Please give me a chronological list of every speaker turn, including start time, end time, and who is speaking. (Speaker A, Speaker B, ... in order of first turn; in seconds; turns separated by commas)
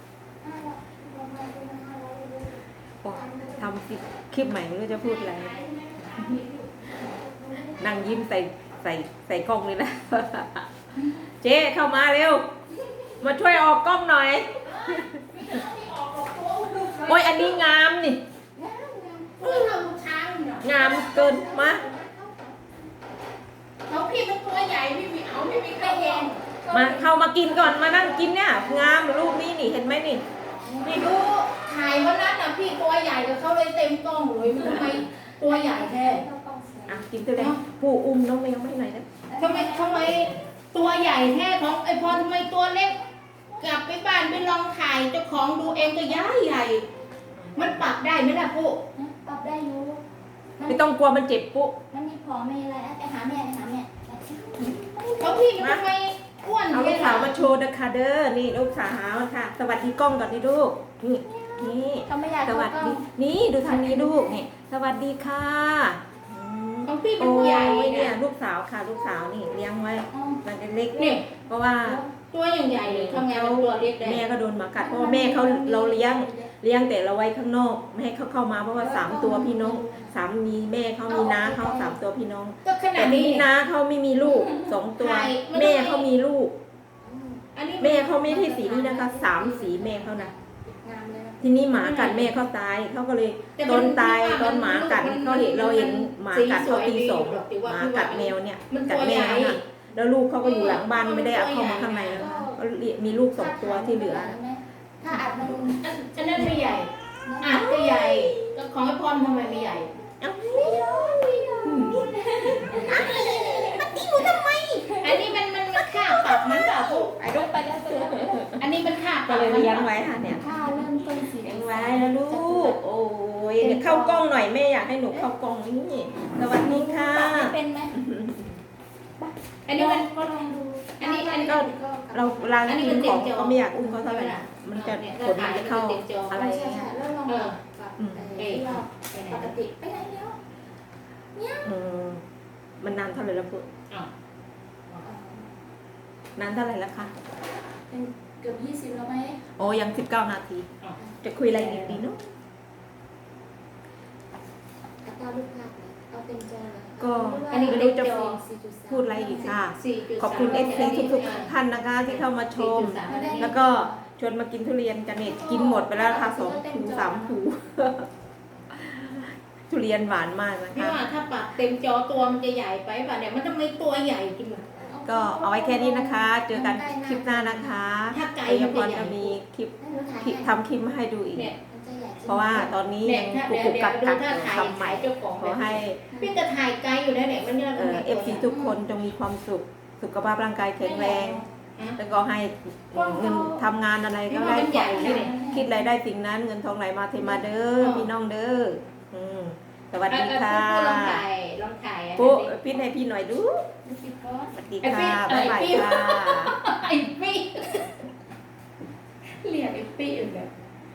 Speaker A: 0.4-3.6, Speaker B: 3.0-5.5, Speaker A: 5.1-8.2, Speaker C: 5.3-6.8, Speaker B: 7.7-12.5, Speaker B: 13.2-15.6, Speaker C: 14.7-17.7, Speaker B: 17.1-18.2, Speaker A: 18.6-19.9, Speaker C: 19.4-20.9, Speaker B: 20.6-21.8, Speaker A: 20.7-22.6, Speaker C: 23.9-26.4, Speaker A: 25.5-29.4, Speaker B: 26.7-30.2, Speaker A: 30.3-31.2, Speaker C: 30.8-36.2, Speaker A: 34.6-37.1, Speaker B: 36.9-39.1, Speaker A: 39.3-40.3, Speaker C: 39.4-43.0, Speaker C: 43.6-46.9, Speaker A: 45.9-46.2, Speaker C: 47.5-48.9, Speaker A: 49.0-50.0, Speaker A: 50.6-50.9, Speaker B: 50.7-51.8, Speaker A: 51.9-55.6, Speaker C: 55.2-57.4, Speaker B: 55.6-55.9, Speaker B: 56.7-72.0, Speaker A: 61.2-63.1, Speaker A: 63.6-64.4, Speaker C: 66.8-68.2, Speaker A: 70.1-70.4, Speaker C: 71.0-71.3, Speaker A: 71.8-72.1, Speaker C: 72.2-74.2, Speaker B: 72.8-86.5, Speaker A: 74.8-76.5, Speaker A: 78.8-80.1, Speaker A: 81.1-82.0, Speaker C: 82.6-83.5, Speaker C: 84.5-86.1, Speaker A: 87.0-87.5, Speaker C: 87.5-88.2, Speaker B: 87.8-90.3, Speaker A: 88.2-91.4, Speaker B: 91.4-104.4, Speaker C: 91.8-92.4, Speaker C: 93.6-99.6, Speaker C: 100.4-102.3, Speaker A: 102.2-102.6, Speaker A: 103.3-108.5, Speaker B: 105.3-105.5, Speaker C: 105.7-109.9, Speaker A: 109.1-115.2, Speaker B: 110.2-115.1, Speaker C: 111.2-113.9, Speaker C: 114.8-117.3, Speaker A: 117.0-118.6, Speaker B: 117.2-118.6, Speaker C: 118.6-120.0, Speaker B: 119.3-128.6, Speaker A: 120.3-122.8, Speaker A: 123.6-124.3, Speaker A: 126.5-128.0, Speaker A: 129.2-133.2, Speaker C: 129.7-130.1, Speaker C: 131.0-131.7, Speaker B: 131.4-137.0, Speaker C: 132.7-136.5, Speaker A: 136.3-140.4, Speaker C: 137.3-137.6, Speaker B: 138.0-138.3, Speaker C: 138.3-139.6, Speaker A: 141.3-141.7, Speaker B: 141.6-142.2, Speaker B: 142.8-143.7, Speaker A: 145.0-145.5, Speaker B: 146.4-147.1, Speaker A: 147.9-149.4, Speaker B: 149.6-150.7, Speaker A: 151.0-151.8, Speaker B: 151.2-152.2, Speaker C: 151.6-152.0, Speaker A: 155.0-159.6, Speaker B: 157.0-158.3, Speaker C: 157.5-158.4, Speaker B: 158.9-168.1, Speaker C: 159.7-161.5, Speaker A: 160.3-161.6, Speaker C: 162.0-163.6, Speaker A: 163.1-164.0, Speaker A: 165.2-167.4, Speaker B: 168.7-171.1, Speaker C: 170.7-174.8, Speaker A: 174.8-177.8, Speaker B: 175.1-181.5, Speaker C: 178.1-179.4, Speaker A: 179.8-180.5, Speaker C: 181.3-181.6, Speaker A: 181.6-182.8, Speaker B: 182.3-186.1, Speaker C: 183.0-188.5, Speaker A: 186.1-186.4, Speaker B: 187.8-191.4, Speaker A: 188.5-188.8, Speaker A: 190.8-191.5, Speaker B: 192.0-201.2, Speaker C: 192.9-193.6, Speaker C: 194.3-195.3, Speaker A: 194.8-195.8, Speaker C: 197.8-198.1, Speaker C: 200.1-202.7, Speaker B: 202.2-203.7, Speaker A: 203.8-204.7, Speaker B: 204.6-206.6, Speaker C: 204.8-208.1, Speaker C: 209.4-210.5